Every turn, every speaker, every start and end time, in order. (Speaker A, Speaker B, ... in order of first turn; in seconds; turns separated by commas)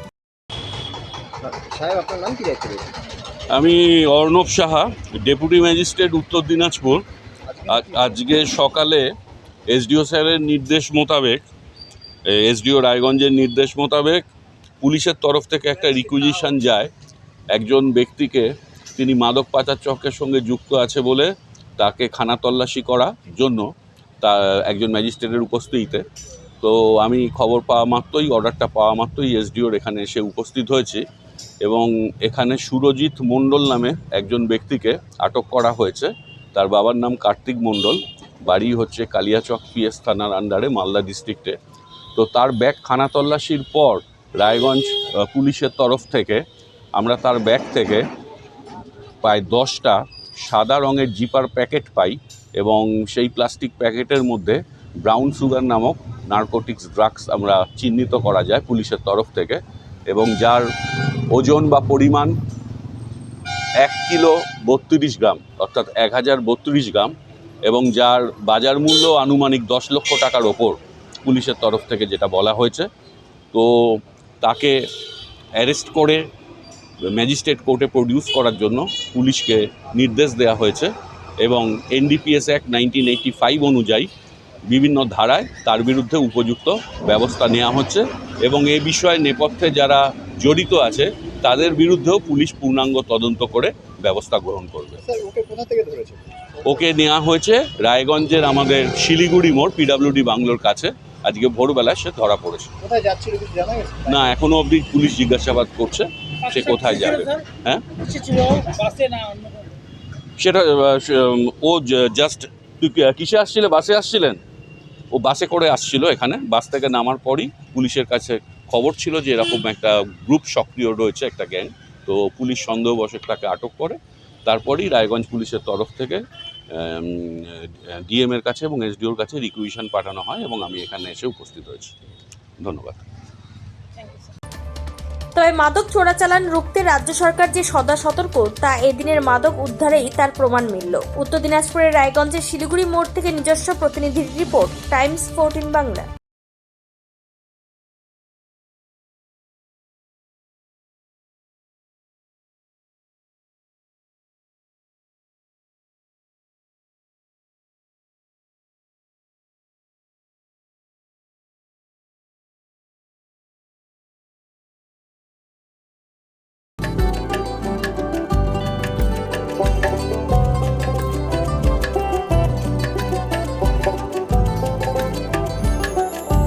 Speaker A: 1.4-3.0, Speaker B: 3.5-7.0, Speaker A: 7.5-8.1, Speaker B: 7.7-9.1, Speaker B: 9.7-11.4, Speaker B: 12.3-14.2, Speaker B: 14.8-16.9, Speaker B: 17.5-23.7, Speaker B: 24.2-26.1, Speaker B: 26.6-31.0, Speaker B: 31.6-41.6, Speaker B: 42.2-46.4, Speaker B: 47.0-48.1, Speaker B: 49.2-60.7, Speaker B: 61.3-62.4, Speaker B: 63.8-67.1, Speaker B: 67.7-72.9, Speaker B: 73.5-74.8, Speaker B: 75.6-76.2, Speaker B: 77.1-84.1, Speaker B: 84.7-95.0, Speaker A: 95.0-96.8, Speaker B: 96.7-102.7, Speaker A: 102.8-104.3, Speaker B: 104.1-107.8, Speaker C: 106.5-107.3, Speaker C: 108.0-109.8, Speaker B: 110.4-114.4, Speaker B: 115.1-131.9, Speaker B: 132.6-133.0, Speaker D: 135.3-146.1